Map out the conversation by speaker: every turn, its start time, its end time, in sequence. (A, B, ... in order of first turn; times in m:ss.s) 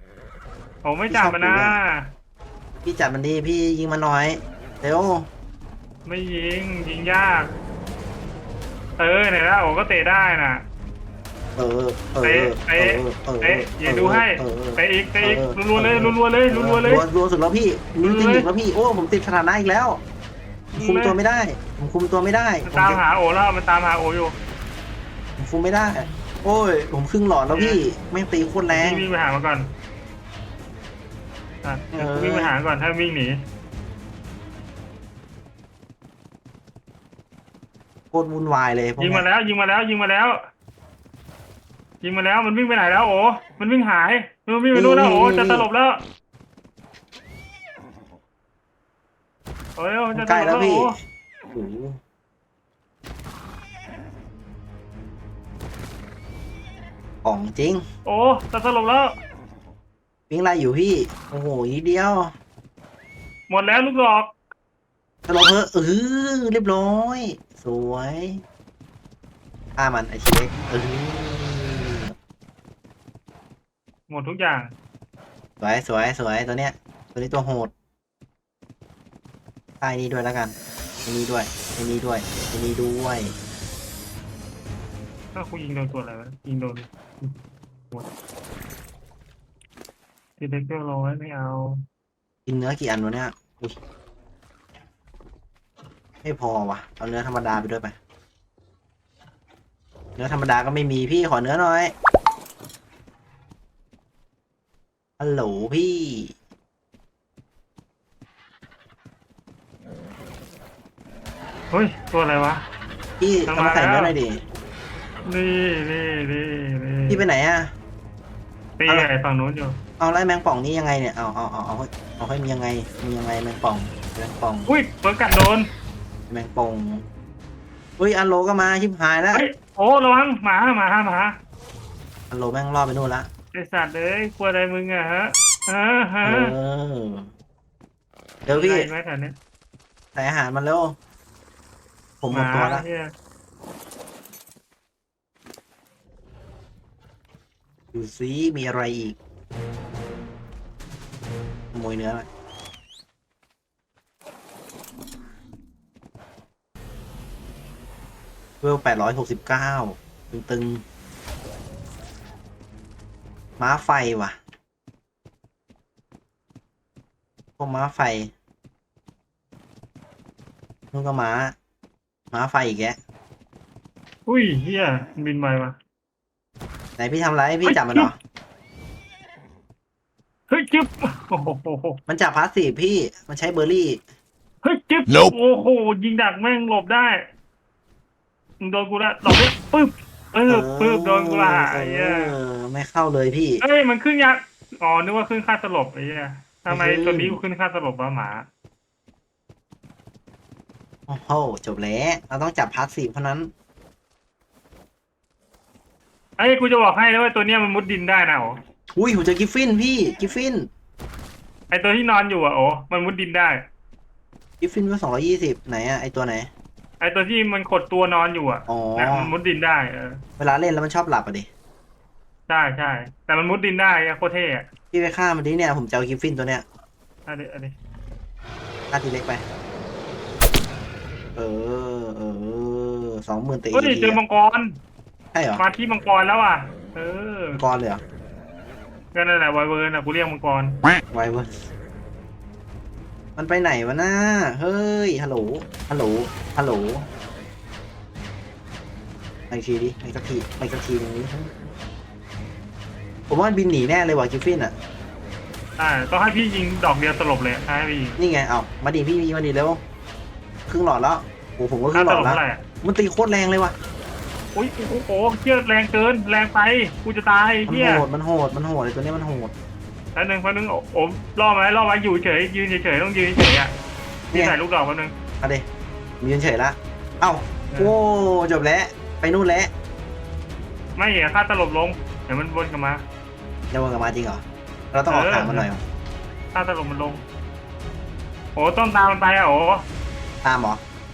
0:00.8-0:02.1 A
0:01.1-0:01.8 B
0:02.8-0:05.3 B
0:06.1-0:07.5 A
0:09.0-0:10.6 A
0:11.6-0:20.0 B
0:12.2-0:17.0 A
0:18.0-0:18.5 A
0:20.7-0:23.0 B
0:20.8-0:21.2 A
0:22.7-0:24.4 A
0:25.4-0:29.1 B
0:27.5-0:27.8 A
0:28.7-0:29.7 A
0:31.6-0:33.4 A
0:31.9-0:32.5 B
0:38.1-0:39.3 B
0:39.0-0:40.4 A
0:42.0-0:46.0 A
0:44.7-0:45.7 B
0:49.8-0:51.0 A
0:50.1-0:52.0 B
0:57.2-0:57.8 B
0:58.0-0:59.2 A
1:00.3-1:02.3 B
1:03.5-1:04.3 A
1:05.3-1:08.4 B
1:09.8-1:12.1 B
1:14.1-1:14.7 A
1:15.6-1:17.7 B
1:19.8-1:23.3 B
1:25.3-1:27.3 A
1:30.4-1:31.8 A
1:32.5-1:33.8 B
1:36.2-1:38.0 B
1:40.2-1:41.9 B
1:45.2-1:46.3 B
1:51.7-1:52.6 A
1:53.2-1:54.4 B
1:53.5-1:54.2 A
1:55.2-1:57.2 A
1:57.1-1:57.7 B
1:58.8-1:59.8 A
2:00.0-2:04.7 B
2:04.7-2:05.7 A
2:06.3-2:07.0 B
2:08.0-2:09.4 B
2:09.3-2:11.4 A
2:12.3-2:13.3 B
2:13.5-2:16.5 A
2:16.2-2:17.3 B
2:18.5-2:18.9 B
2:18.5-2:19.4 A
2:20.2-2:21.0 B
2:22.2-2:22.8 B
2:22.3-2:23.1 A
2:27.9-2:29.2 B
2:31.7-2:32.3 B
2:38.6-2:40.8 B
2:43.6-2:44.4 B
2:47.6-2:48.3 B
2:50.9-2:51.5 B
2:52.3-2:53.0 B
2:54.3-2:55.8 A
2:57.0-2:58.2 B
2:57.6-2:58.1 A
3:00.5-3:02.0 A
3:02.1-3:04.0 B
3:04.6-3:07.3 A
3:08.6-3:12.3 A
3:10.5-3:13.6 B
3:13.6-3:18.5 A
3:16.7-3:17.4 B
3:21.1-3:23.5 B
3:26.4-3:28.6 A
3:28.9-3:30.7 B
3:31.7-3:33.7 A
3:34.6-3:36.5 B
3:37.0-3:40.2 A
3:38.7-3:39.3 B
3:40.4-3:41.5 B
3:42.5-3:44.7 A
3:44.9-3:46.6 B
3:47.3-3:47.7 A
3:48.9-3:49.4 B
3:51.4-3:54.2 B
3:53.7-3:54.8 A
3:55.3-3:55.6 B
3:55.6-3:57.6 A
3:57.5-3:58.0 B
3:59.1-4:00.8 A
4:01.1-4:01.7 B
4:03.4-4:07.1 B
4:09.5-4:11.5 B
4:13.3-4:14.7 B
4:15.8-4:18.2 A
4:18.2-4:19.8 B
4:20.7-4:23.8 B
4:21.9-4:22.6 A
4:24.5-4:28.0 A
4:27.7-4:29.5 B
4:30.1-4:33.7 A
4:34.3-4:35.1 A
4:35.4-4:35.6 B
4:36.2-4:39.7 B
4:41.0-4:43.0 A
4:43.7-4:45.8 B
4:45.1-4:45.7 A
4:46.5-4:47.2 A
4:48.6-4:49.8 A
4:50.4-4:50.8 B